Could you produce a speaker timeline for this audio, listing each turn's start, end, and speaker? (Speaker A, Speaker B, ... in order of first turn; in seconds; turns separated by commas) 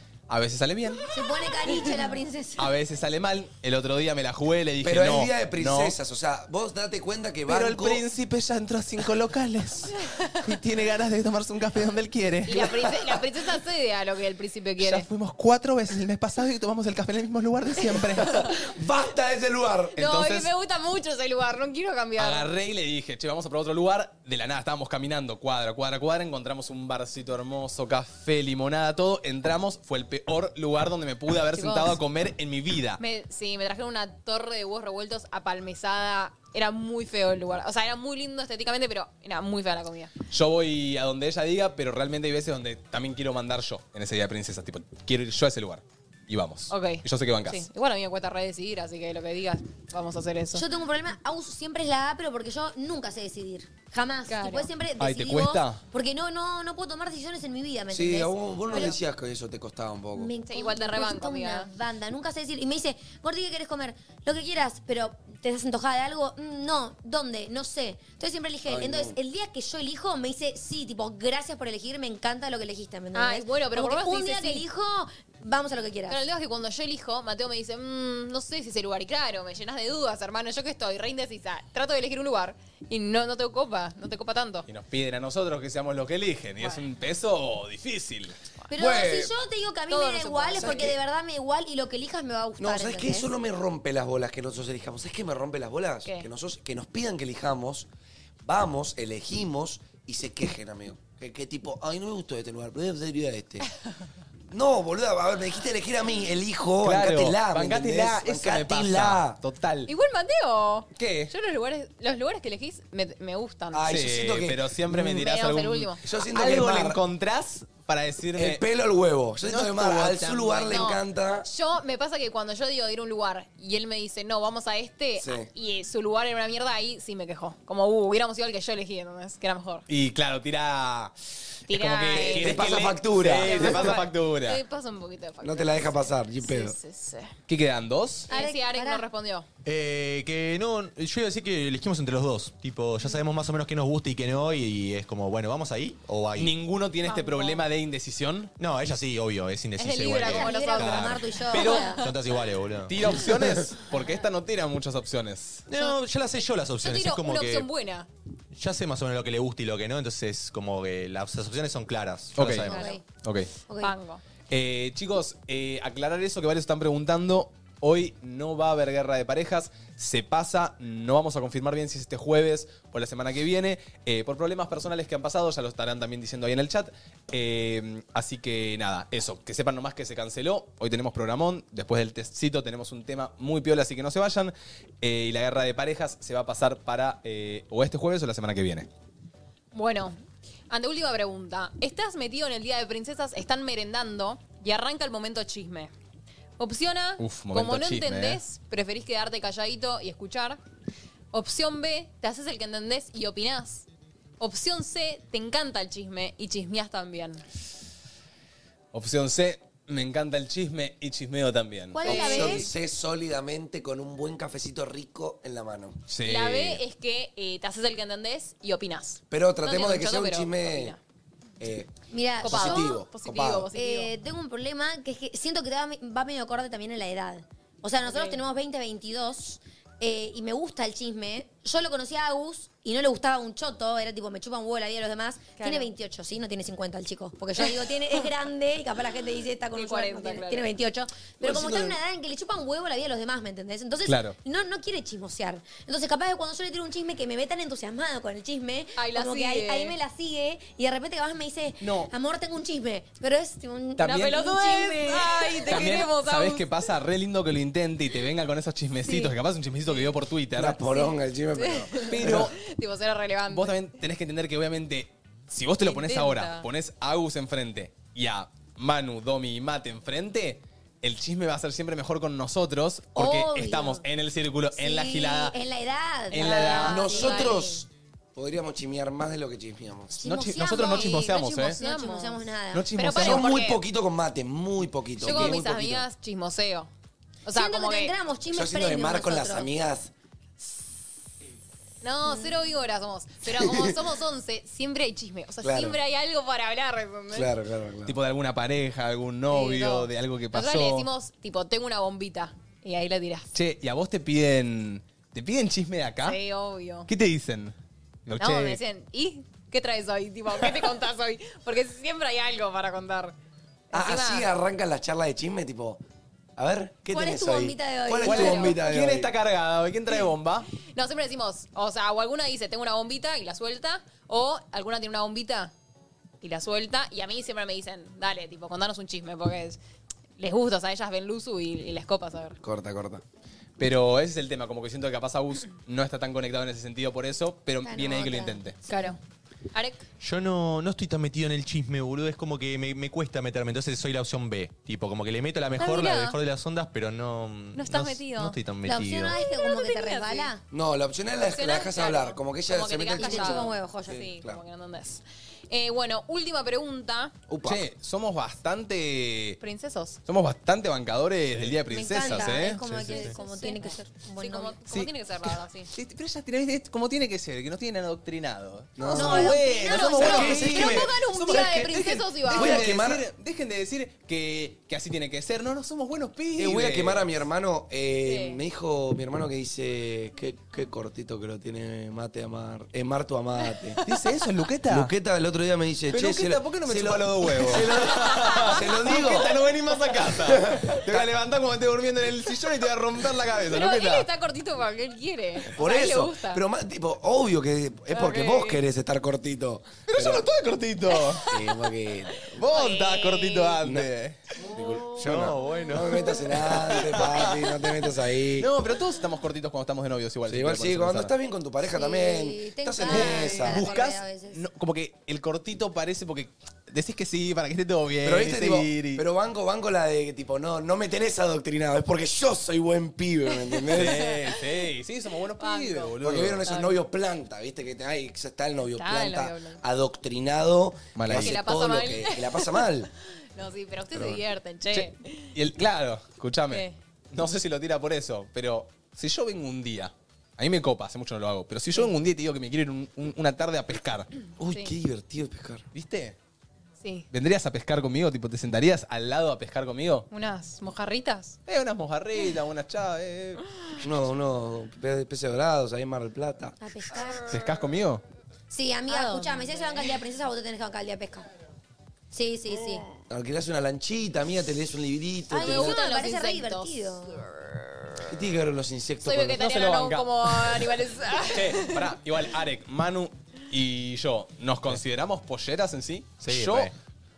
Speaker A: 0.3-1.1, Speaker B: 1.1-2.7, Speaker C: 1.6-1.9, Speaker A: 2.6-6.0, Speaker D: 4.8-8.0, Speaker A: 7.5-13.2, Speaker C: 10.1-10.3, Speaker C: 12.4-15.1, Speaker A: 14.8-18.5, Speaker D: 18.5-20.0, Speaker C: 19.9-22.5, Speaker A: 20.0-20.5, Speaker A: 22.2-33.0, Speaker C: 31.5-32.0, Speaker C: 33.0-40.1, Speaker A: 40.3-47.6, Speaker C: 46.7-50.6, Speaker B: 50.5-59.0, Speaker C: 54.3-54.7, Speaker A: 55.0-55.8, Speaker D: 57.9-60.3, Speaker B: 60.1-76.2, Speaker C: 60.5-61.7, Speaker D: 68.7-69.2, Speaker C: 73.1-74.7, Speaker C: 76.1-84.7, Speaker A: 84.7-88.4, Speaker B: 88.7-93.3, Speaker D: 88.8-89.3, Speaker C: 89.9-90.9, Speaker D: 90.6-90.9, Speaker D: 92.6-97.9, Speaker D: 98.4-103.7, Speaker D: 104.5-109.4, Speaker A: 106.8-109.9, Speaker C: 109.9-114.0, Speaker A: 111.0-111.3, Speaker D: 113.7-114.6, Speaker A: 113.9-118.6, Speaker C: 115.0-116.0, Speaker D: 116.0-117.0, Speaker D: 118.3-121.5, Speaker A: 119.4-121.0, Speaker C: 120.7-129.8, Speaker D: 125.2-125.5, Speaker A: 129.9-131.1, Speaker A: 131.7-134.6, Speaker C: 131.7-137.3, Speaker D: 132.3-133.9, Speaker D: 135.4-136.7, Speaker A: 137.5-138.3, Speaker B: 138.3-139.1, Speaker C: 138.3-139.5, Speaker E: 139.6-146.5, Speaker A: 146.3-148.5, Speaker C: 147.0-147.6, Speaker E: 148.6-151.2, Speaker C: 149.8-152.0, Speaker B: 150.1-152.1, Speaker A: 151.5-151.9, Speaker E: 152.0-153.0, Speaker A: 152.9-155.6, Speaker E: 155.7-157.7, Speaker C: 156.8-158.1, Speaker E: 158.5-162.8, Speaker A: 162.3-163.5, Speaker B: 162.7-163.0, Speaker C: 162.7-163.0, Speaker B: 163.7-163.9, Speaker C: 163.8-164.2, Speaker A: 164.5-188.9, Speaker C: 189.7-190.2, Speaker C: 190.7-195.9, Speaker C: 196.6-200.6, Speaker A: 197.2-198.4, Speaker C: 201.3-203.8, Speaker C: 204.4-207.4, Speaker A: 208.9-212.6, Speaker B: 211.9-212.7, Speaker D: 212.0-216.0, Speaker C: 212.1-212.6, Speaker A: 216.1-216.8, Speaker C: 216.2-221.0, Speaker D: 219.3-220.9, Speaker D: 221.6-221.9, Speaker B: 222.1-223.0, Speaker C: 222.4-224.1, Speaker D: 222.4-223.7, Speaker B: 223.7-255.6, Speaker C: 228.0-228.4, Speaker C: 235.6-235.9, Speaker C: 237.6-238.2, Speaker C: 239.7-240.7, Speaker D: 241.4-242.0, Speaker A: 244.0-244.3, Speaker C: 249.0-249.9, Speaker A: 251.8-252.1, Speaker A: 254.0-260.8, Speaker C: 254.0-256.7, Speaker C: 259.1-259.3, Speaker C: 259.9-260.1, Speaker D: 260.5-262.5, Speaker C: 260.9-263.8, Speaker A: 262.1-262.6, Speaker A: 263.5-275.6, Speaker C: 265.8-266.7, Speaker B: 273.1-274.0, Speaker B: 274.8-277.8, Speaker A: 276.3-277.1, Speaker C: 276.3-277.6, Speaker D: 276.4-280.1, Speaker A: 280.1-281.8, Speaker B: 280.1-282.9, Speaker C: 280.6-283.8, Speaker A: 282.7-283.5, Speaker D: 283.2-286.1, Speaker C: 285.2-286.9, Speaker A: 285.3-285.6, Speaker C: 287.4-288.1, Speaker B: 287.5-289.7, Speaker D: 288.5-290.1, Speaker C: 292.0-297.5, Speaker D: 293.5-293.9, Speaker D: 295.6-296.0, Speaker D: 297.3-298.1, Speaker A: 298.1-301.1, Speaker C: 299.5-303.5, Speaker A: 303.5-306.4, Speaker C: 306.2-307.1, Speaker A: 307.1-307.7, Speaker A: 308.2-308.8, Speaker C: 308.4-313.3, Speaker A: 310.6-310.9, Speaker C: 313.9-314.5, Speaker D: 313.9-316.0, Speaker D: 316.6-319.3, Speaker B: 317.1-318.7, Speaker A: 318.2-320.7, Speaker C: 318.2-318.7, Speaker C: 320.9-325.7, Speaker C: 326.4-329.8, Speaker C: 330.4-332.6, Speaker D: 332.6-333.2, Speaker A: 333.8-338.8, Speaker B: 337.8-339.1, Speaker C: 338.9-339.2, Speaker C: 339.7-340.0, Speaker E: 340.2-349.4, Speaker C: 345.8-346.4, Speaker C: 347.7-348.6, Speaker B: 348.8-350.6, Speaker C: 349.3-350.5, Speaker D: 350.7-354.6, Speaker C: 351.4-357.3, Speaker B: 353.1-354.2, Speaker D: 357.5-357.8, Speaker A: 357.6-359.6, Speaker C: 359.6-360.2, Speaker A: 360.2-363.2, Speaker B: 361.9-364.8, Speaker C: 362.3-365.9, Speaker A: 364.9-377.3, Speaker D: 369.0-371.1, Speaker B: 369.1-370.6, Speaker C: 369.2-372.9, Speaker D: 372.5-373.2, Speaker D: 376.6-384.0, Speaker C: 378.2-378.6, Speaker A: 384.0-385.1, Speaker D: 384.9-389.5, Speaker A: 386.1-394.3, Speaker C: 388.6-389.4, Speaker D: 390.3-391.3, Speaker C: 393.7-396.6, Speaker D: 395.7-400.4, Speaker C: 398.1-398.8, Speaker A: 400.1-401.5, Speaker C: 401.2-401.8, Speaker D: 401.5-402.6, Speaker A: 402.5-407.7, Speaker C: 402.6-403.8, Speaker D: 403.8-408.7, Speaker E: 405.2-406.0, Speaker A: 408.6-411.3, Speaker D: 410.5-413.9, Speaker B: 411.9-414.6, Speaker A: 413.0-419.2, Speaker D: 418.2-424.2, Speaker A: 423.9-426.7, Speaker C: 423.9-424.7, Speaker C: 425.6-426.1, Speaker D: 426.2-433.1, Speaker C: 426.6-427.0, Speaker C: 428.9-429.8, Speaker A: 431.1-431.6, Speaker C: 431.3-432.9, Speaker C: 433.5-435.5, Speaker A: 434.1-434.4, Speaker A: 434.9-444.3, Speaker C: 436.7-436.9, Speaker D: 444.6-445.9, Speaker A: 445.9-446.4, Speaker C: 447.0-447.3, Speaker A: 447.3-450.3, Speaker C: 450.3-451.6, Speaker A: 451.7-453.6, Speaker D: 454.0-456.8, Speaker B: 456.8-457.6, Speaker A: 457.5-458.2, Speaker B: 458.7-461.5, Speaker C: 459.1-460.1, Speaker B: 462.3-463.0, Speaker D: 463.3-466.0, Speaker B: 465.5-467.4, Speaker C: 465.5-467.8, Speaker D: 468.2-469.6, Speaker C: 469.2-472.1, Speaker A: 469.5-476.9, Speaker E: 476.4-476.9